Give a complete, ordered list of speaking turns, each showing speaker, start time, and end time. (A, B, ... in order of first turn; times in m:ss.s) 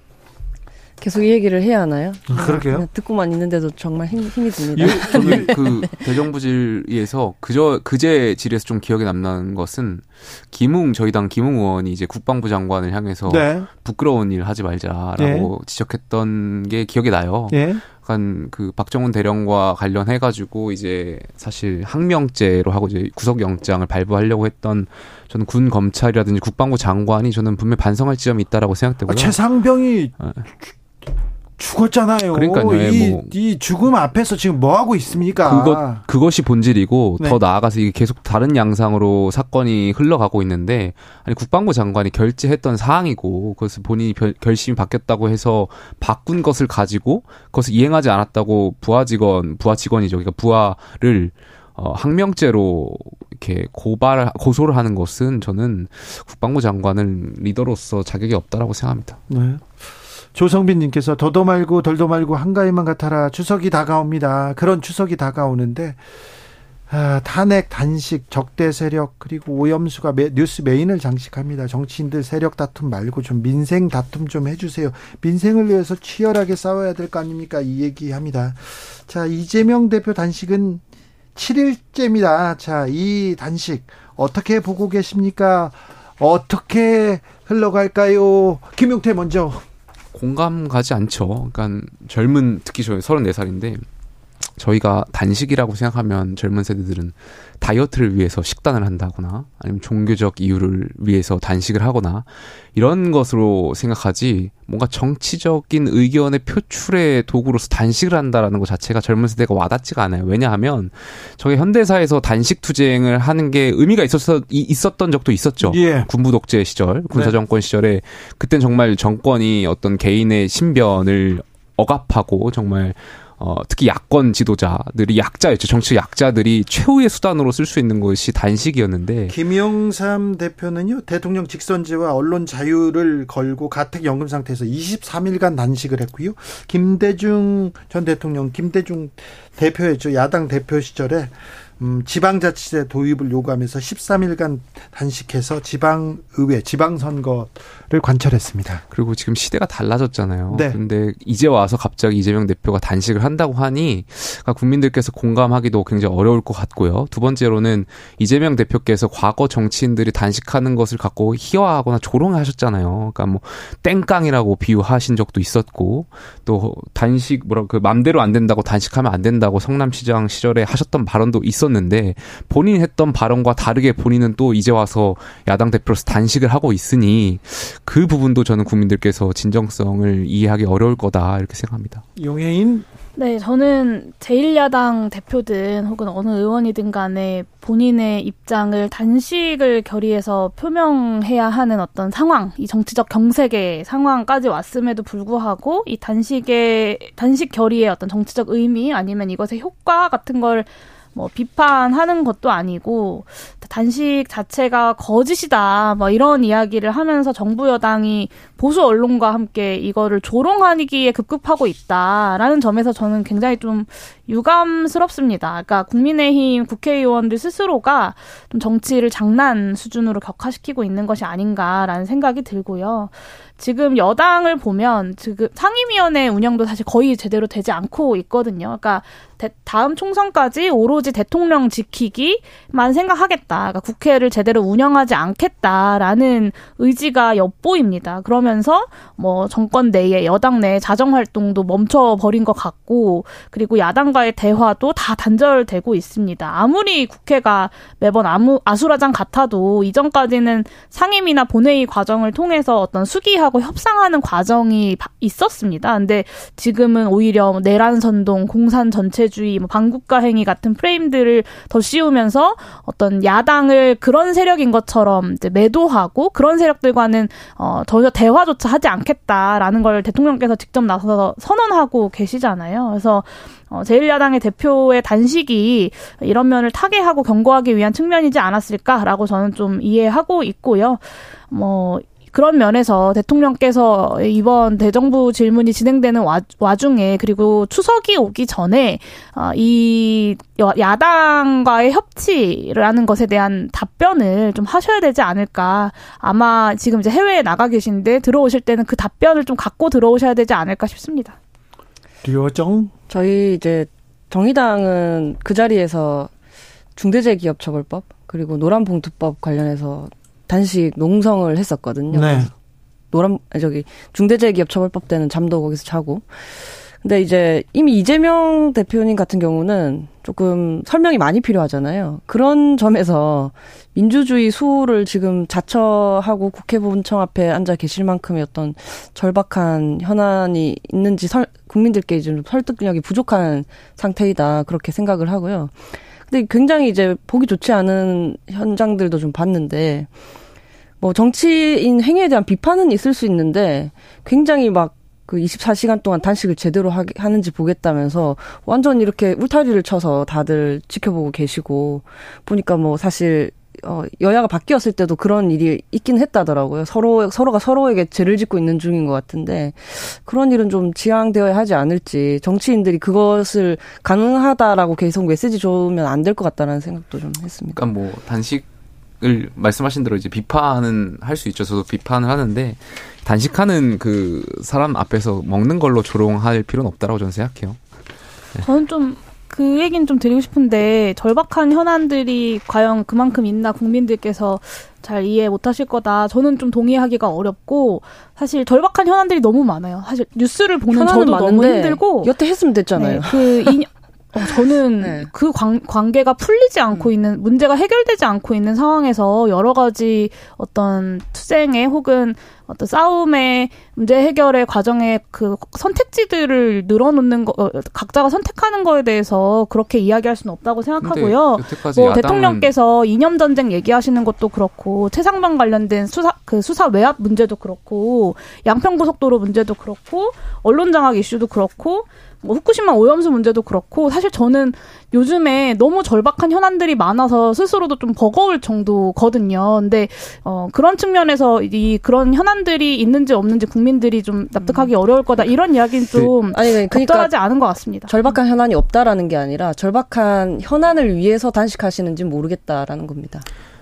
0:01.0-0:05.9 A
0:02.3-0:02.9 B
0:04.7-0:05.7 B
0:04.8-0:29.4 C
0:13.3-0:13.7 B
0:15.2-0:15.5 B
0:17.5-0:17.8 B
0:29.1-0:30.7 B
0:31.6-0:36.0 B
0:32.3-0:33.3 C
0:35.4-0:59.2 C
0:59.3-0:59.7 B
1:00.3-1:06.0 B
1:06.9-1:20.8 B
1:21.3-1:29.6 B
1:30.1-1:33.8 C
1:34.6-2:09.4 C
1:55.6-1:56.1 B
2:09.3-2:28.8 B
2:28.9-3:02.0 C
2:30.5-2:30.8 B
3:02.2-3:02.9 B
3:03.2-5:01.4 D
5:02.2-5:02.9 B
5:03.1-5:06.3 A
5:07.0-5:12.5 A
5:12.1-5:12.5 B
5:13.1-5:40.1 A
5:41.0-6:07.8 A
6:07.7-6:08.7 C
6:09.2-6:17.8 C
6:18.6-6:32.3 D
6:30.9-6:33.8 A
6:32.9-7:18.1 D
6:34.4-6:35.3 A
6:51.0-6:52.7 C
7:16.5-7:17.3 A
7:18.1-7:23.4 A